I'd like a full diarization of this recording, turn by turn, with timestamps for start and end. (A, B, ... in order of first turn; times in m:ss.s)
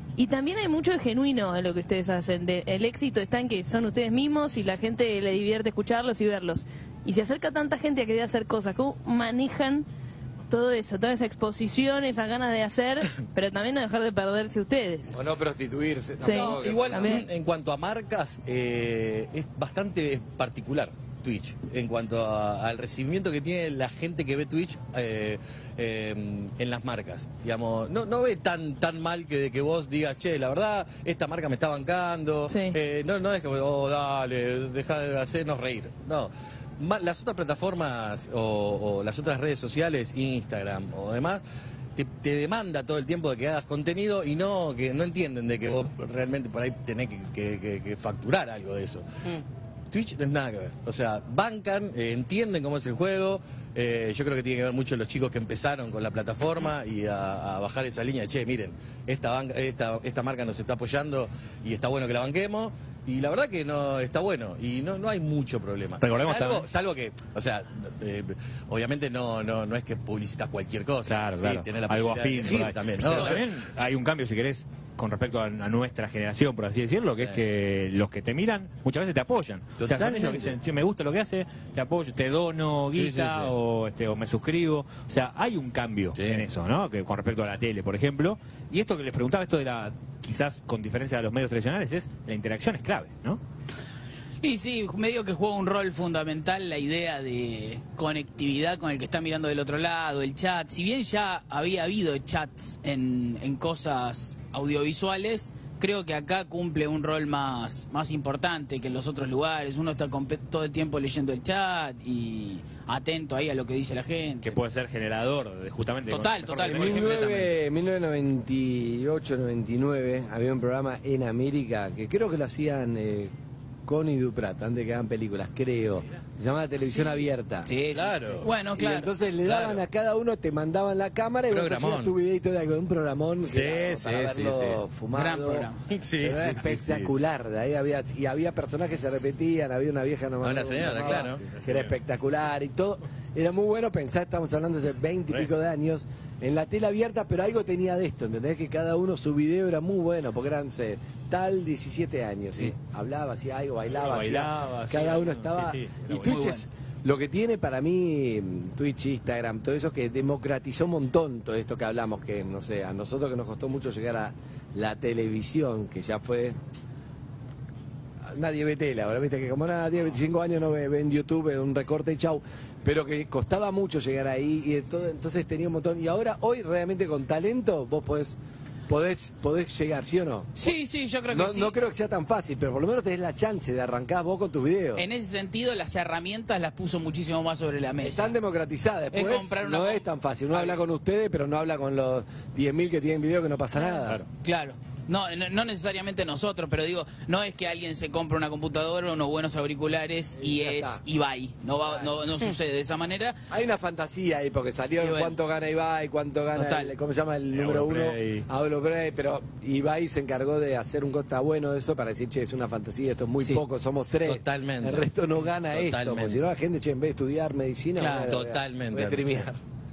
0:00.2-0:09.8 A
0:10.5-0:15.1 A
0:15.1-0:17.0 B
0:16.2-0:17.2 A
0:16.3-0:17.1 C
0:16.6-0:41.4 D
0:32.5-0:32.8 A
0:42.0-0:49.1 D
0:49.9-1:13.7 D
1:06.0-1:06.7 E
1:11.0-1:33.4 E
1:13.1-1:13.4 C
1:19.8-1:20.5 D
1:22.9-1:23.5 D
1:26.2-1:26.4 D
1:34.4-1:54.6 C
1:54.4-1:57.5 E
1:56.1-1:57.3 C
1:56.7-2:03.3 B
2:03.8-2:07.7 B
2:07.6-2:09.1 C
2:07.9-2:08.5 D
2:08.7-2:15.7 B
2:09.4-2:09.8 D
2:11.5-2:12.1 D
2:13.5-2:14.8 D
2:15.1-2:15.8 C
2:15.9-2:17.1 D
2:16.2-2:46.6 B
2:20.4-2:21.4 D
2:21.5-2:21.9 E
2:33.9-2:36.5 E
2:36.2-2:36.6 C
2:48.3-3:00.7 B
3:00.6-3:01.8 C
3:01.3-3:05.0 B
3:05.0-3:08.4 C
3:08.0-3:14.2 B
3:09.1-3:10.8 C
3:14.4-3:23.4 C
3:20.4-3:21.0 B
3:23.5-3:39.6 B
3:25.0-3:25.4 C
3:26.5-3:26.9 C
3:27.5-3:28.4 E
3:34.1-3:36.4 D
3:38.0-3:38.3 C
3:38.1-3:39.5 D